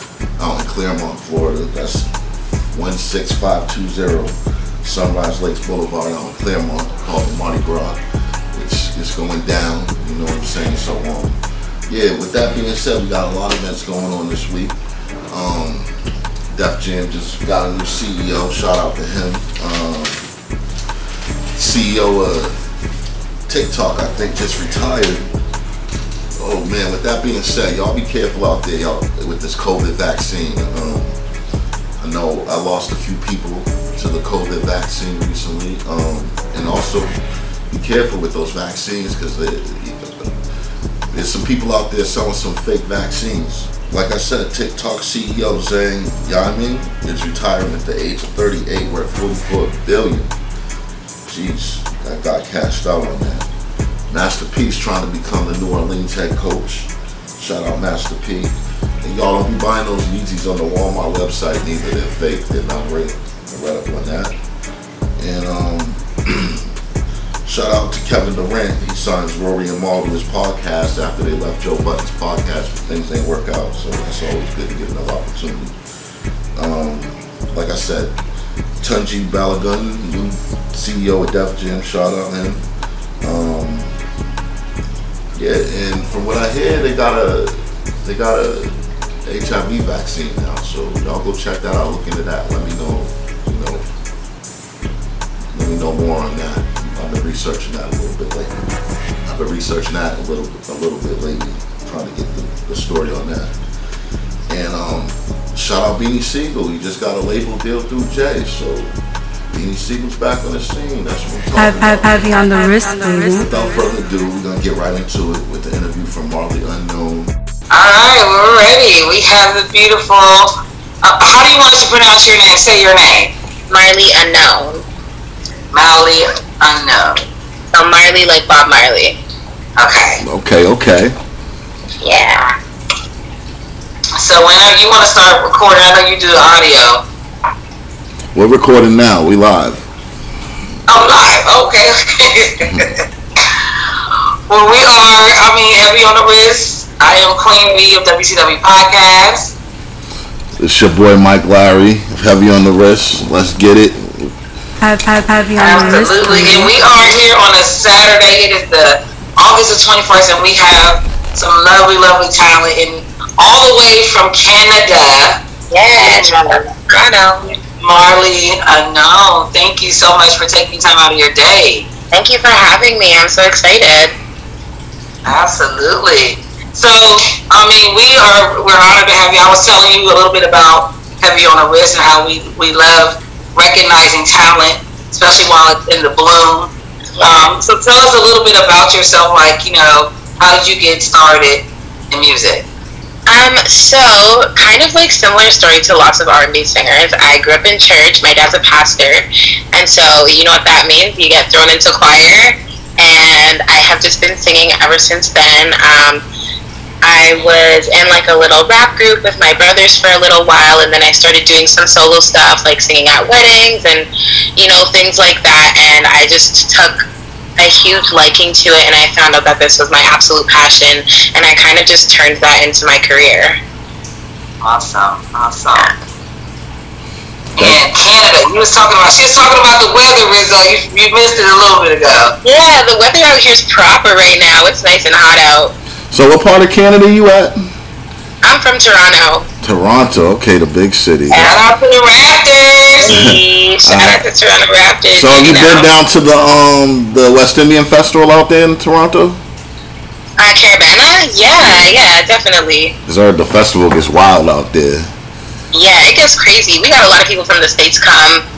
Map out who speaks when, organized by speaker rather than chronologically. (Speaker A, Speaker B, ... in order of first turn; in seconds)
Speaker A: 0.4-2.1, 2.7-8.0, 8.5-14.8, 15.3-15.9, 16.5-20.3, 21.5-22.6, 23.5-25.3, 26.4-31.2, 32.0-37.2, 37.7-40.3, 41.1-50.3, 51.2-53.5, 54.1-64.4, 65.2-66.7, 67.5-75.8, 76.6-78.1, 78.8-82.7, 83.2-84.0, 85.3-93.8, 95.5-98.6, 99.2-103.5, 104.5-109.0, 109.5-112.6, 113.2-117.3, 130.2-131.2, 138.3-139.9, 150.6-154.4, 236.1-237.6, 239.6-241.5, 243.1-244.2, 245.1-249.4, 251.6-251.9, 253.1-255.1
Speaker B: 111.6-113.4, 154.8-156.7
Speaker C: 117.7-123.3, 125.7-127.2, 129.8-130.2, 134.2-137.1, 140.9-143.0, 144.5-149.5, 155.6-165.4, 166.0-166.7, 167.8-171.9, 175.2-192.7, 224.6-225.9, 227.6-232.3, 241.4-243.1
Speaker D: 123.7-124.8, 127.7-129.2, 132.0-132.5, 165.7-167.6, 172.1-174.1, 187.2-187.5, 193.3-206.2, 207.0-217.0, 217.6-223.6, 232.4-235.7, 238.4-239.5, 241.3-241.7, 243.0-245.9, 250.4-252.9, 255.7-258.4